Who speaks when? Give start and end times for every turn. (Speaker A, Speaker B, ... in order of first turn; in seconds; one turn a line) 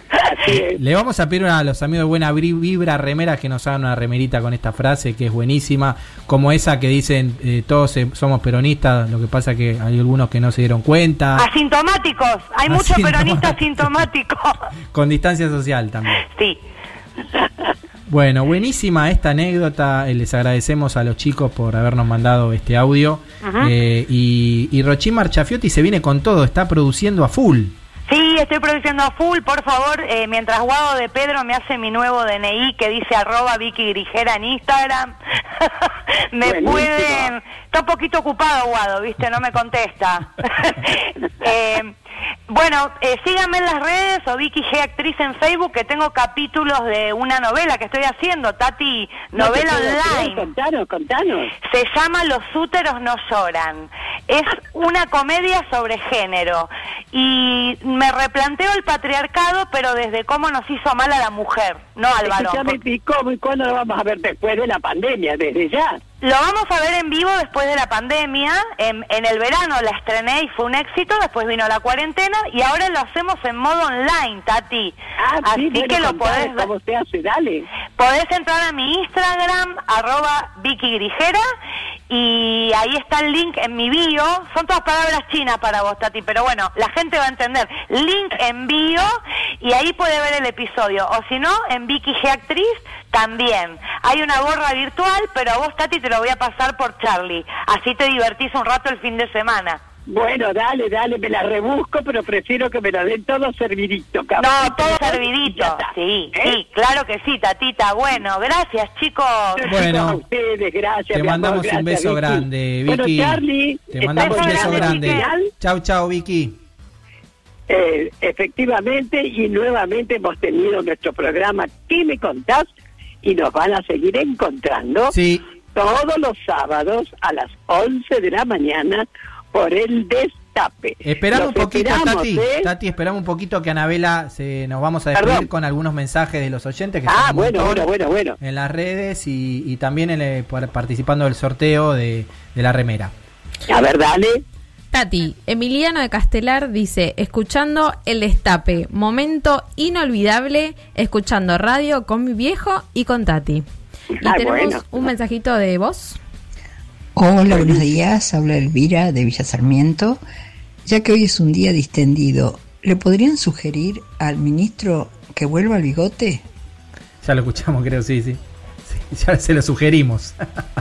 Speaker A: 0.1-0.8
Speaker B: 0.4-11.5
Speaker C: 11.3-14.6
Speaker B: 12.7-13.6
Speaker B: 14.9-16.2
Speaker C: 16.2-16.6
Speaker B: 18.1-27.7
Speaker C: 23.4-23.7
Speaker C: 28.1-41.9
Speaker A: 36.4-37.3
Speaker C: 42.5-50.5
Speaker A: 49.3-51.5
Speaker C: 51.6-62.8
Speaker A: 62.2-66.0
Speaker C: 66.2-76.7
Speaker A: 75.2-77.7
Speaker C: 78.0-81.4
Speaker C: 82.1-99.8
Speaker A: 100.1-106.6
Speaker C: 104.4-109.7
Speaker A: 109.6-115.5
Speaker B: 109.7-110.2
Speaker B: 111.1-116.5
Speaker C: 114.2-115.3
Speaker A: 117.7-122.7
Speaker A: 123.2-125.1
Speaker B: 125.1-125.4
Speaker A: 125.7-132.7
Speaker B: 131.0-137.9
Speaker A: 135.1-135.5
Speaker A: 137.1-138.3
Speaker B: 138.4-143.1
Speaker A: 143.7-144.4
Speaker D: 144.9-153.6
Speaker A: 154.2-155.0
Speaker D: 154.2-156.2
Speaker E: 157.2-160.2
Speaker A: 157.5-157.9
Speaker E: 160.8-166.4
Speaker B: 167.2-170.3